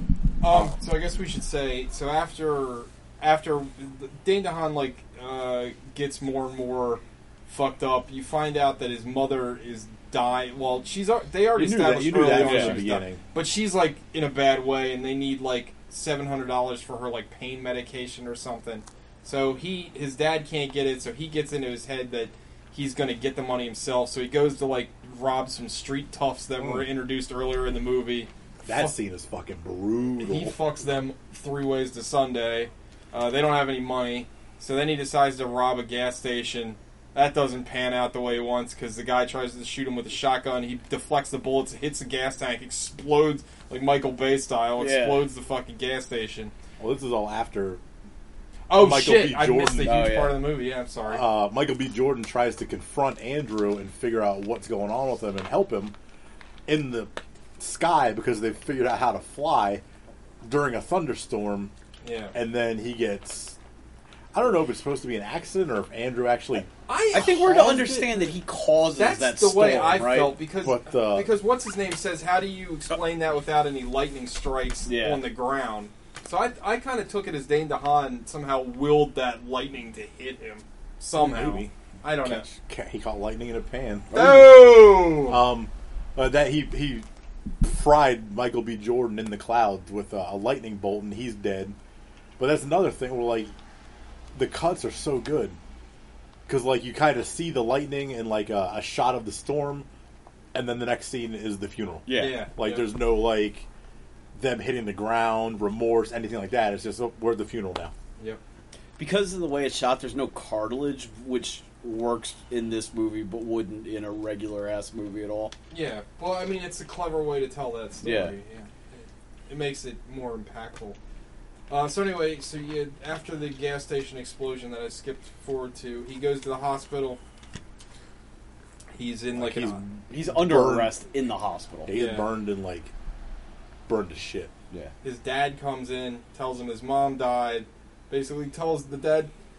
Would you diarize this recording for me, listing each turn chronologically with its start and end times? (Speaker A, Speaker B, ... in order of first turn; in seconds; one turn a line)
Speaker A: 0.4-28.9
Speaker B: 11.6-13.2
Speaker C: 12.2-12.8
Speaker B: 26.6-26.9
Speaker B: 28.6-30.6
Speaker A: 30.2-46.5
Speaker C: 44.8-45.3
Speaker B: 46.8-47.8
Speaker A: 48.7-51.2
Speaker B: 48.7-50.1
Speaker C: 49.8-50.4
Speaker B: 51.0-55.9
Speaker B: 56.7-59.8
Speaker B: 60.4-61.7
Speaker A: 62.0-62.3
Speaker B: 62.3-63.6
Speaker B: 64.3-66.7
Speaker A: 66.9-68.4
Speaker C: 67.1-70.3
Speaker A: 69.0-82.5
Speaker B: 70.6-71.3
Speaker C: 74.8-75.3
Speaker B: 81.2-84.5
Speaker C: 84.1-84.6
Speaker A: 84.1-85.4
Speaker B: 85.2-87.0
Speaker B: 87.6-91.8
Speaker B: 92.4-93.5
Speaker B: 94.3-95.6
Speaker B: 96.5-99.9
Speaker B: 100.5-103.7
Speaker C: 102.1-102.4
Speaker A: 102.1-102.9
Speaker B: 104.3-107.9
Speaker C: 109.0-115.5
Speaker A: 115.7-121.0
Speaker C: 118.0-118.3
Speaker A: 121.7-127.2
Speaker A: 128.9-129.8
Speaker B: 129.3-130.9
Speaker C: 130.1-131.9
Speaker B: 131.8-132.9
Speaker A: 131.9-132.3
Speaker B: 133.9-134.5
Speaker A: 135.0-139.3